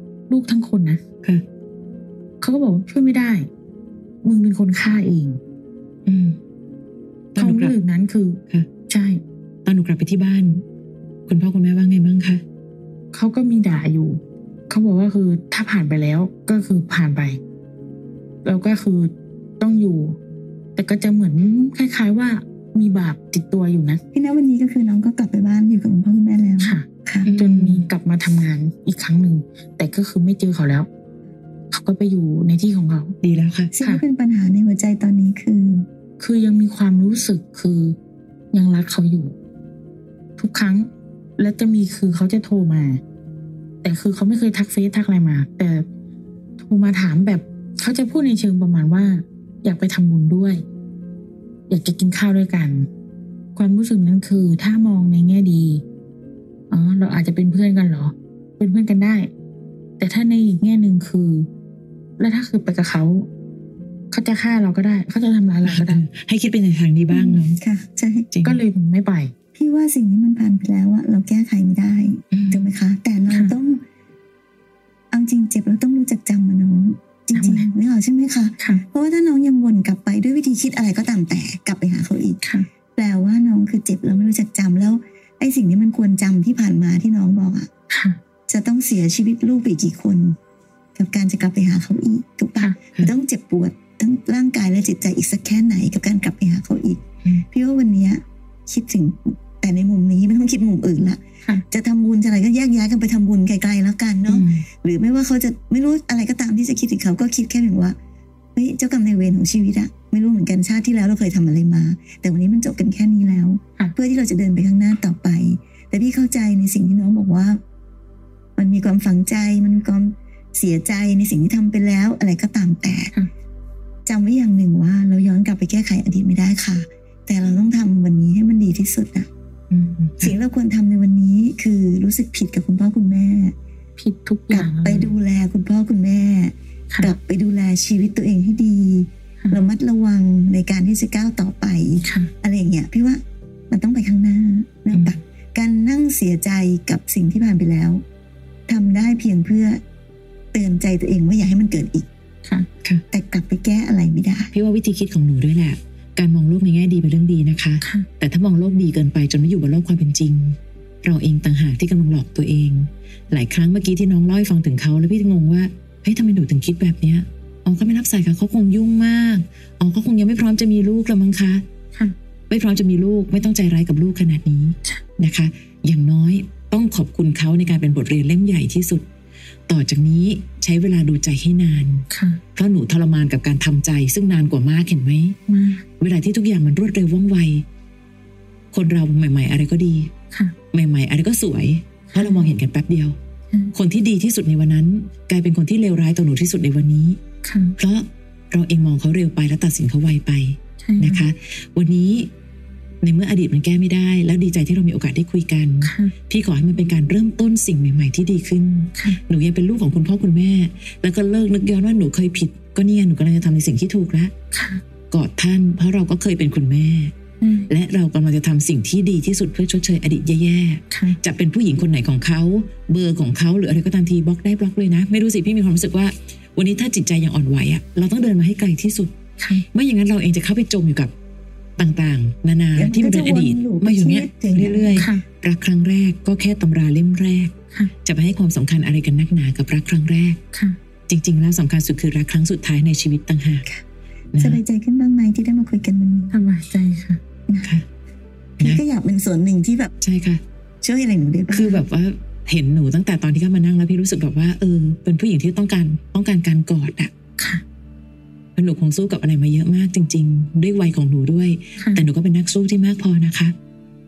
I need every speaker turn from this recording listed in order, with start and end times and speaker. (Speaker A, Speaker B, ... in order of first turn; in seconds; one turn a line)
Speaker A: 0.3-1.0
Speaker A: 2.4-3.5
Speaker A: 4.2-5.4
Speaker B: 6.0-6.4
Speaker B: 7.3-7.8
Speaker A: 7.3-9.2
Speaker B: 9.6-10.6
Speaker B: 11.3-12.4
Speaker A: 13.1-17.4
Speaker A: 18.4-20.2
Speaker A: 20.8-24.0
Speaker C: 24.1-27.3
Speaker A: 26.6-30.9
Speaker B: 27.2-27.9
Speaker A: 31.7-33.1
Speaker B: 33.2-33.7
Speaker C: 33.7-35.9
Speaker A: 36.2-38.0
Speaker A: 38.5-39.3
Speaker A: 40.4-43.0
Speaker A: 43.8-45.9
Speaker A: 46.6-50.6
Speaker A: 51.7-52.9
Speaker A: 53.5-55.8
Speaker A: 56.7-59.3
Speaker A: 60.0-61.5
Speaker A: 62.2-63.3
Speaker A: 64.1-66.0
Speaker B: 65.6-67.6
Speaker C: 67.1-68.3
Speaker B: 68.3-68.6
Speaker A: 68.4-69.3
Speaker C: 69.5-73.8
Speaker B: 72.3-72.7
Speaker A: 73.3-73.5
Speaker C: 75.1-82.4
Speaker A: 77.3-77.7
Speaker A: 78.6-78.8
Speaker C: 82.9-87.7
Speaker A: 87.9-88.2
Speaker C: 88.5-90.3
Speaker C: 90.9-108.0
Speaker B: 104.3-104.6
Speaker C: 108.5-117.6
Speaker C: 118.6-123.1
Speaker C: 124.0-129.3
Speaker B: 129.7-130.4
Speaker C: 130.2-133.5
Speaker A: 134.0-135.1
Speaker C: 134.5-148.0
Speaker A: 142.0-142.3
Speaker B: 144.9-145.2
Speaker C: 148.7-149.8
Speaker C: 150.5-152.1
Speaker C: 153.1-154.5
Speaker B: 154.5-171.6
Speaker A: 157.8-158.1
Speaker B: 172.5-179.1
Speaker B: 179.7-182.0
Speaker A: 182.1-182.4
Speaker B: 182.6-185.3
Speaker A: 185.5-185.8
Speaker B: 186.0-187.6
Speaker B: 188.7-190.1
Speaker A: 190.3-190.6
Speaker B: 190.7-193.2
Speaker A: 192.1-192.5
Speaker B: 193.7-197.2
Speaker A: 197.4-197.8
Speaker B: 197.8-202.3
Speaker A: 200.8-201.3
Speaker B: 203.0-214.3
Speaker A: 205.8-206.1
Speaker A: 214.5-214.8
Speaker B: 215.1-217.1
Speaker A: 217.4-217.7
Speaker B: 217.7-229.1
Speaker A: 220.9-221.2
Speaker A: 229.4-229.6
Speaker B: 229.7-231.1
Speaker B: 231.8-237.5
Speaker C: 232.7-235.1
Speaker A: 234.9-235.2
Speaker B: 238.0-240.4
Speaker B: 241.1-243.7
Speaker B: 244.3-244.6
Speaker C: 244.4-246.3
Speaker A: 246.3-247.2
Speaker C: 247.5-247.7
Speaker C: 248.6-249.9
Speaker B: 250.0-250.4
Speaker C: 250.8-251.8
Speaker B: 251.5-257.1
Speaker A: 257.4-257.6
Speaker B: 258.6-263.5
Speaker A: 261.8-262.0